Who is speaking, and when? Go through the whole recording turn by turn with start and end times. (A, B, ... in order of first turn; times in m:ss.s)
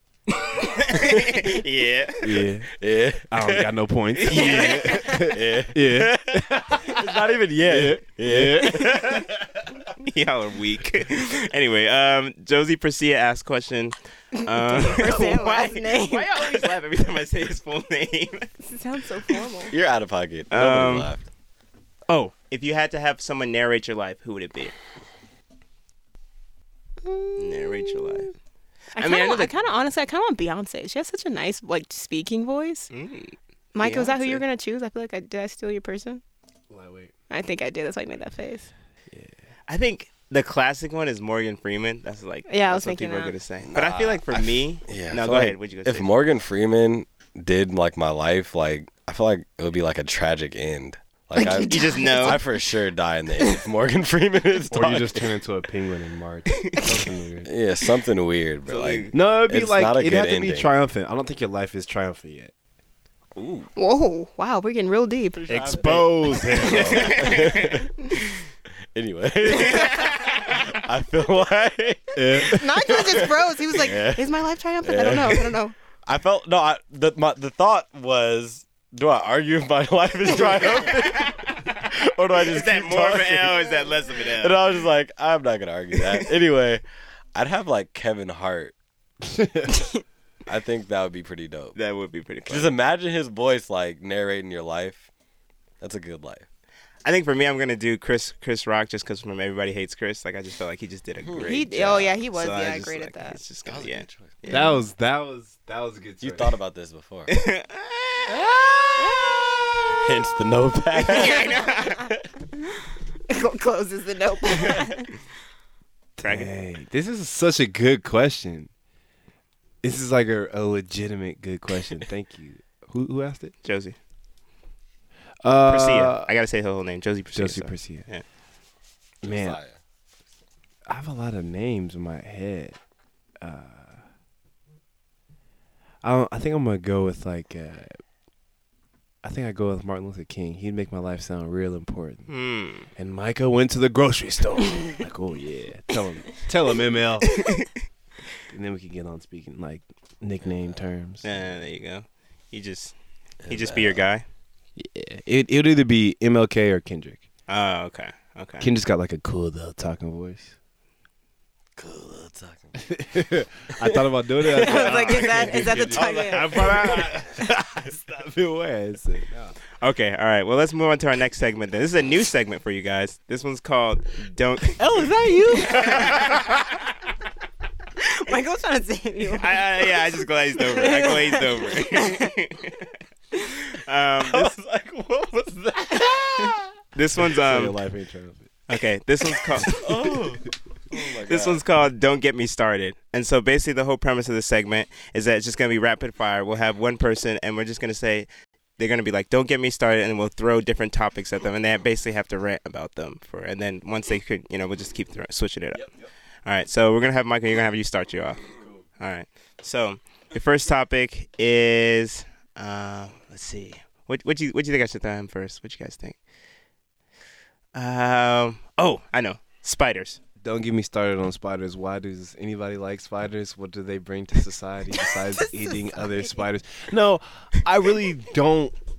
0:00.7-0:02.4 A
0:00.9-0:01.6 B
0:02.2-0:02.7 C
0:02.8-0:03.7 B
0:03.3-0:09.4 C
0:04.2-0:04.9 A
0:04.5-0:05.1 D
0:05.0-0:09.3 B
0:10.0-0:18.5 A
0:14.4-0:16.5 D
0:18.6-0:19.7 D
0:19.7-0:21.3 B
0:20.5-0:21.1 A
0:22.1-0:24.7 A
0:27.0-0:28.3 D
0:27.4-0:28.3 A
0:29.0-0:29.5 A
0:29.0-0:32.9 D
0:32.9-0:34.4 A
0:33.8-0:36.2 D
0:36.7-0:37.1 C
0:37.3-0:38.7 D
0:39.7-0:46.1 A
0:42.5-0:43.3 D
0:43.7-0:55.3 B
0:51.4-0:52.4 D
0:51.6-0:52.4 A
0:54.7-0:57.5 C
0:56.6-0:56.8 A
0:57.4-1:00.7 B
0:58.7-0:59.1 A
0:59.1-1:02.5 C
1:03.4-1:03.7 A
1:03.8-1:05.4 D
1:05.4-1:08.2 B
1:05.5-1:07.4 C
1:06.6-1:07.8 A
1:09.0-1:14.3 B
1:09.8-1:10.4 A
1:12.2-1:13.0 C
1:12.4-1:15.8 D
1:14.8-1:23.8 B
1:20.6-1:21.4 A
1:22.4-1:24.6 A
1:24.4-1:26.8 B
1:27.4-1:28.7 B
1:29.3-1:29.7 C
1:30.5-1:31.8 B
1:31.8-1:32.8 A
1:32.5-1:35.1 B
1:35.8-1:36.5 B
1:37.0-1:44.7 A
1:41.2-1:41.6 B
1:41.4-1:43.4 D
1:43.7-1:44.6 B
1:44.5-1:46.6 C
1:46.2-1:47.3 B
1:47.3-1:48.5 A
1:49.9-1:52.1 B
1:50.9-1:52.1 A
1:51.4-1:51.9 D
1:53.3-1:55.1 D
1:56.2-1:58.7 C
1:56.2-1:56.5 A
1:59.8-2:03.5 C
2:03.6-2:04.0 A
2:05.4-2:06.3 C
2:05.7-2:08.2 A
2:07.4-2:08.0 C
2:09.2-2:09.8 B
2:09.2-2:09.6 C
2:10.9-2:12.8 C
2:13.4-2:14.0 C
2:16.0-2:18.0 C
2:19.2-2:22.3 C
2:22.3-2:22.9 A
2:23.0-2:27.5 C
2:28.5-2:31.2 C
2:31.2-2:33.0 A
2:33.4-2:34.0 B
2:33.5-2:34.2 A
2:34.8-2:37.2 C
2:37.5-2:38.7 A
2:38.6-2:40.5 C
2:41.8-2:42.8 B
2:42.8-2:49.5 C
2:44.5-2:47.0 D
2:45.0-2:45.8 A
2:45.9-2:47.0 B
2:49.8-2:54.8 A
2:54.8-2:56.2 D
2:55.8-2:56.5 A
2:58.0-3:00.0 D
2:59.4-3:04.5 A
3:00.6-3:02.3 D
3:04.2-3:06.7 B
3:06.0-3:06.5 D
3:07.0-3:07.8 A
3:07.4-3:08.5 C
3:08.7-3:10.3 A
3:09.6-3:11.6 B
3:11.2-3:25.9 A
3:26.5-3:36.2 A
3:37.8-3:40.2 A
3:40.4-3:48.8 C
3:45.4-3:46.0 D